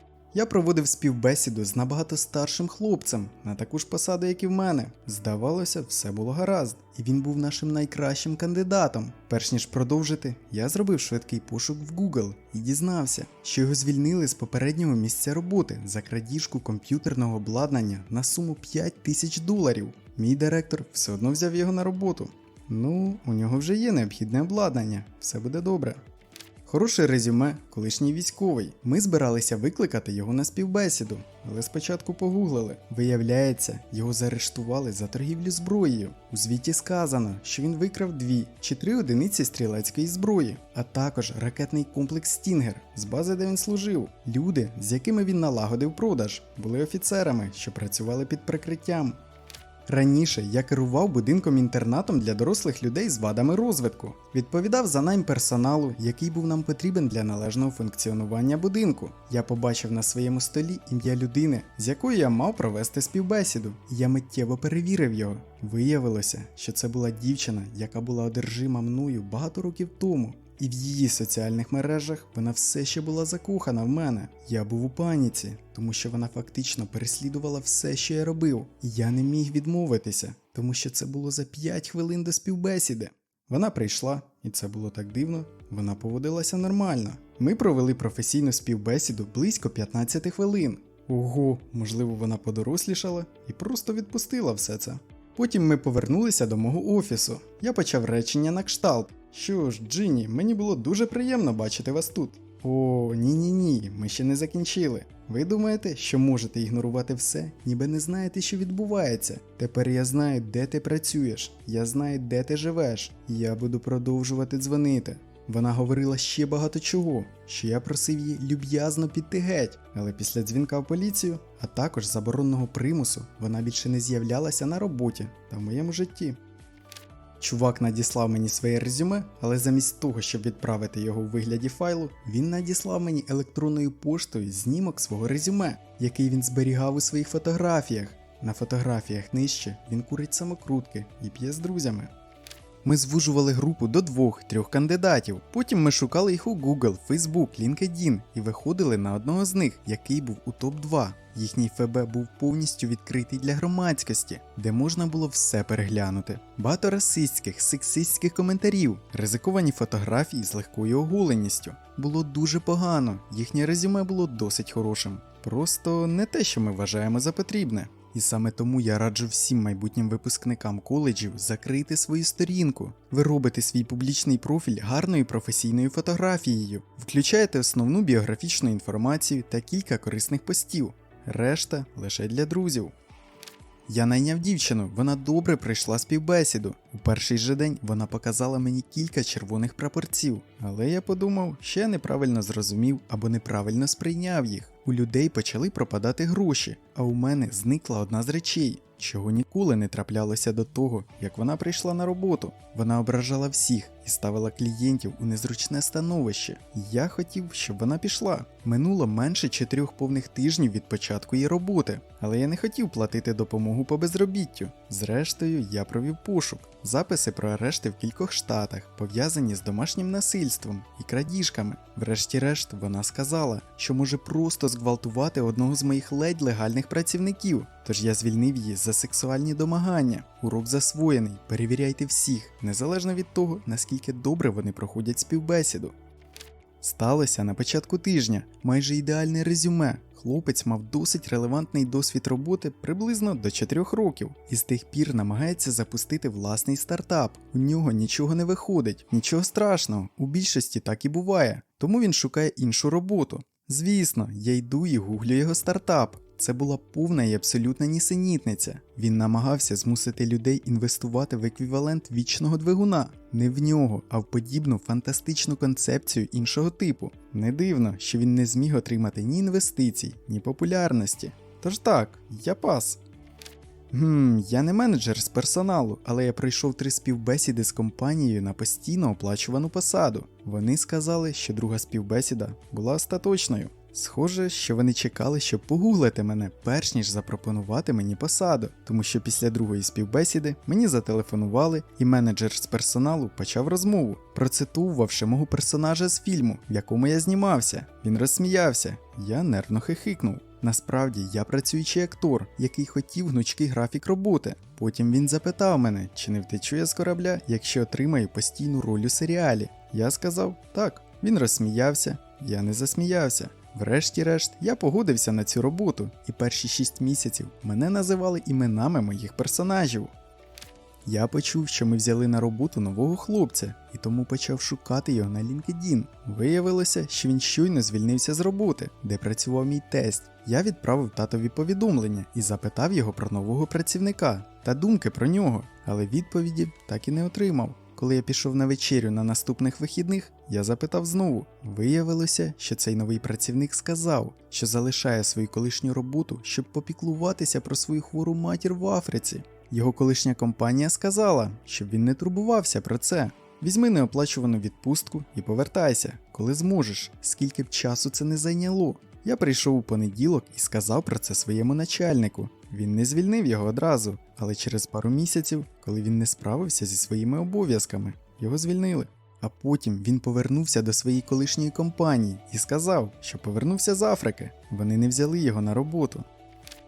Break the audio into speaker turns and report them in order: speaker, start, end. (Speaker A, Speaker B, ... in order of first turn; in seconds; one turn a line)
Speaker A: 0.3-26.0
Speaker A: 26.6-49.2
Speaker A: 49.9-126.4
Speaker A: 127.4-142.1
Speaker A: 142.8-182.9
Speaker A: 183.9-235.9
Speaker A: 236.8-273.0
Speaker A: 273.9-320.1
Speaker A: 321.0-376.3